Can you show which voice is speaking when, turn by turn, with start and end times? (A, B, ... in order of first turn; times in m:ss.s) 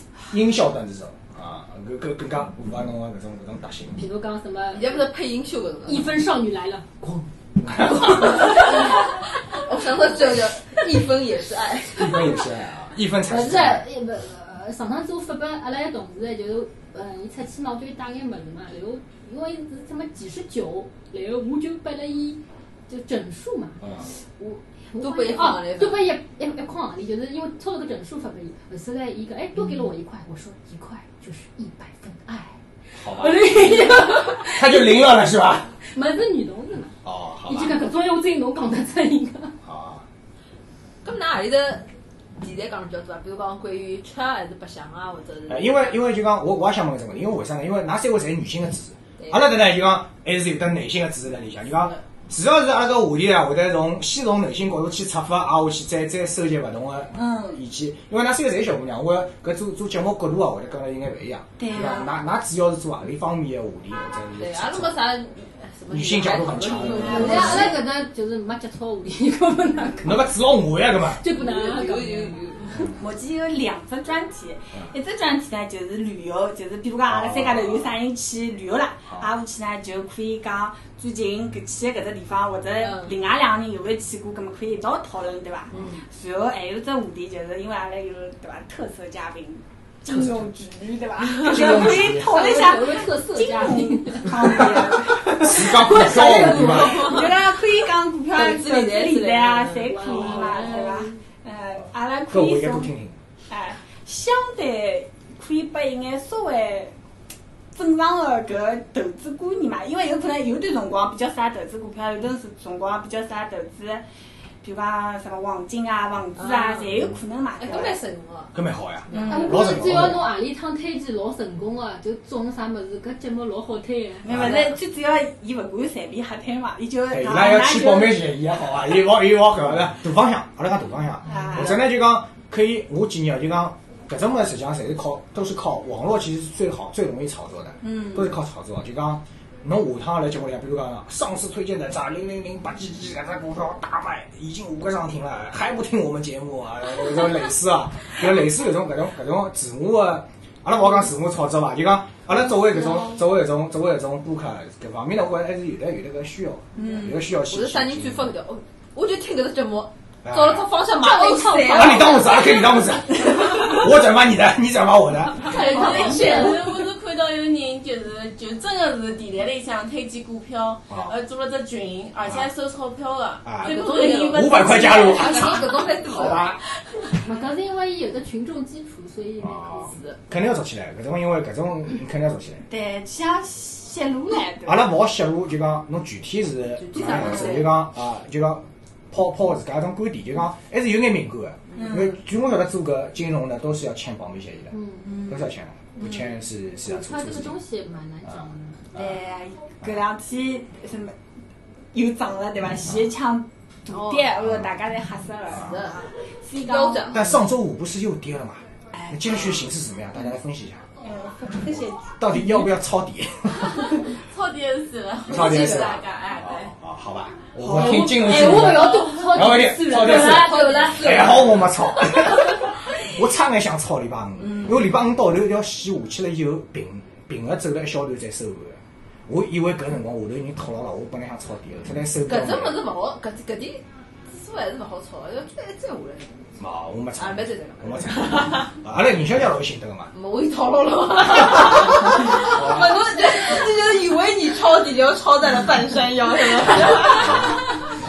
0:00.3-0:04.0 A
0:03.9-0:05.0 B
0:04.7-0:06.2 C
0:05.8-0:09.1 B
0:07.6-0:08.6 A
0:08.1-0:12.4 C
0:12.0-0:13.9 A
0:13.3-0:35.1 B
0:25.0-0:26.1 C
0:33.0-0:35.7 A
0:35.8-0:39.6 B
0:37.0-0:37.8 A
0:39.6-0:40.0 A
0:41.0-0:41.9 C
0:42.4-0:46.0 C
0:45.5-1:04.9 A
0:49.2-0:49.5 C
0:57.1-0:57.6 D
1:01.6-1:02.1 D
1:04.4-1:07.8 C
1:05.9-1:07.8 A
1:07.0-1:07.5 D
1:07.1-1:10.3 B
1:10.0-1:11.2 A
1:11.0-1:12.4 B
1:11.3-1:12.8 C
1:13.0-1:42.9 D
1:17.1-1:17.9 A
1:19.0-1:19.3 A
1:22.8-1:23.1 C
1:25.7-1:26.0 C
1:30.1-1:30.4 A
1:31.4-1:32.4 A
1:31.9-1:34.6 B
1:34.6-1:37.1 A
1:35.9-1:37.3 C
1:36.0-1:36.6 B
1:38.3-1:40.7 C
1:39.9-1:41.2 B
1:42.3-1:43.2 A
1:43.5-1:46.9 D
1:47.7-1:54.0 D
1:54.6-1:58.0 D
1:56.4-1:58.6 C
1:58.5-2:00.3 A
1:59.1-1:59.4 C
1:59.1-1:59.6 D
1:59.2-2:04.3 B
2:04.2-2:08.2 D
2:04.3-2:04.7 C
2:07.1-2:38.3 A
2:11.2-2:11.8 D
2:17.8-2:18.4 D
2:36.7-2:37.2 D
2:37.5-2:42.6 C
2:40.2-2:40.7 A
2:41.0-2:42.5 B
2:41.6-2:45.6 A
2:45.5-2:46.6 B
2:45.5-2:46.7 C
2:45.6-2:55.8 E
2:45.7-2:46.4 D
2:53.4-2:56.6 A
2:53.6-2:56.6 C
2:57.2-2:59.9 B
2:59.4-3:02.6 A
2:59.7-3:00.2 C
3:02.7-3:04.8 D
3:04.6-3:14.7 A
3:06.8-3:07.8 C
3:11.7-3:12.2 D
3:14.7-3:15.0 B
3:15.0-3:16.3 D
3:15.2-3:17.6 A
3:16.8-3:18.8 B
3:18.9-3:21.1 D
3:21.9-3:27.1 D
3:23.9-3:24.3 C
3:25.5-3:27.4 C
3:25.5-3:25.8 A
3:27.1-3:30.8 A
3:28.9-3:29.6 D
3:31.0-3:32.2 D
3:32.1-3:34.0 A
3:33.8-3:36.7 E
3:35.3-3:52.8 A
3:35.3-3:36.0 C
3:37.6-3:38.3 D
3:37.6-3:41.2 B
3:39.9-3:42.2 C
3:52.3-3:56.3 C
3:56.6-4:00.1 A
3:57.2-3:58.7 C
4:00.1-4:07.8 C
4:02.4-4:03.0 A
4:07.2-4:07.5 A